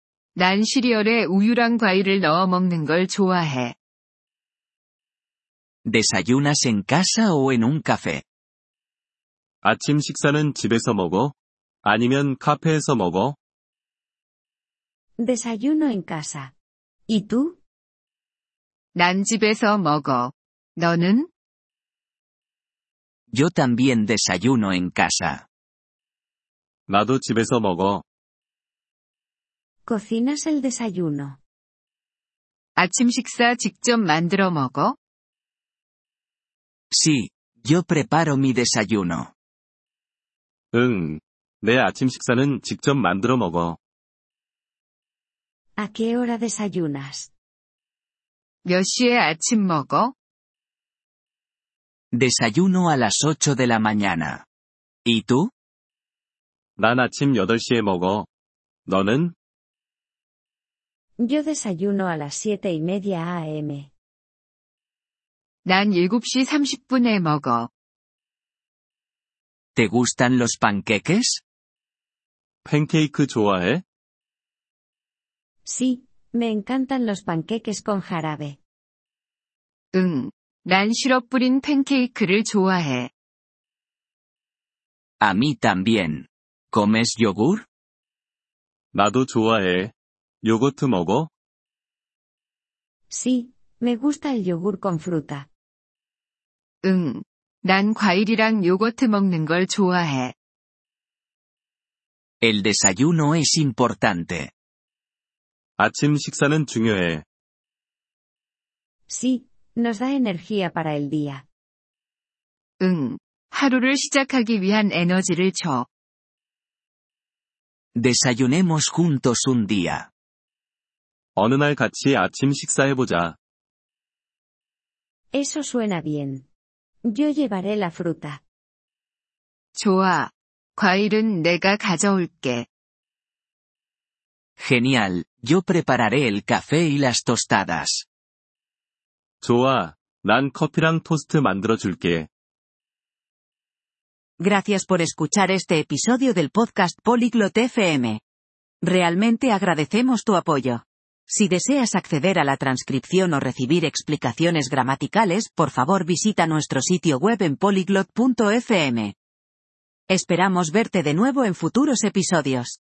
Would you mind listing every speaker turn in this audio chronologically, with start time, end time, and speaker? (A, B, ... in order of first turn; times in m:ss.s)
0:00.4-0:03.7 A
0:05.8-0:08.2 B
0:09.6-0:13.4 C
0:15.2-0:16.5 D
0:17.1-0:17.6 D
0:18.9-0:21.3 A
0:23.3-0:25.4 B
0:26.9-0:28.0 C
0:29.9-0:31.4 D
0:32.8-0:35.0 A
0:36.9-0:39.3 B
0:40.7-0:43.8 C
0:45.8-0:47.3 D
0:48.6-0:50.1 A
0:52.1-0:54.4 B
0:55.0-0:55.5 B
0:56.8-0:58.3 C
0:58.9-0:59.3 C
1:01.2-1:03.9 D
1:05.6-1:07.7 A
1:09.8-1:11.4 B
1:12.6-1:13.8 C
1:15.6-1:18.6 D
1:19.9-1:23.1 A
1:25.2-1:27.6 B
1:28.9-1:31.3 C
1:33.1-1:35.5 D
1:36.8-1:40.3 A
1:42.4-1:44.5 B
1:45.8-1:47.2 C
1:49.1-1:51.4 D
1:52.8-1:55.9 A
1:58.0-2:00.1 B
2:01.4-2:03.4 C
2:05.3-2:06.5 D
2:07.0-2:08.4 D
2:09.7-2:12.7 A
2:14.6-2:18.0 B
2:19.4-2:22.3 C
2:24.4-2:28.2 E
2:28.8-2:39.1 E
2:40.1-2:42.7 E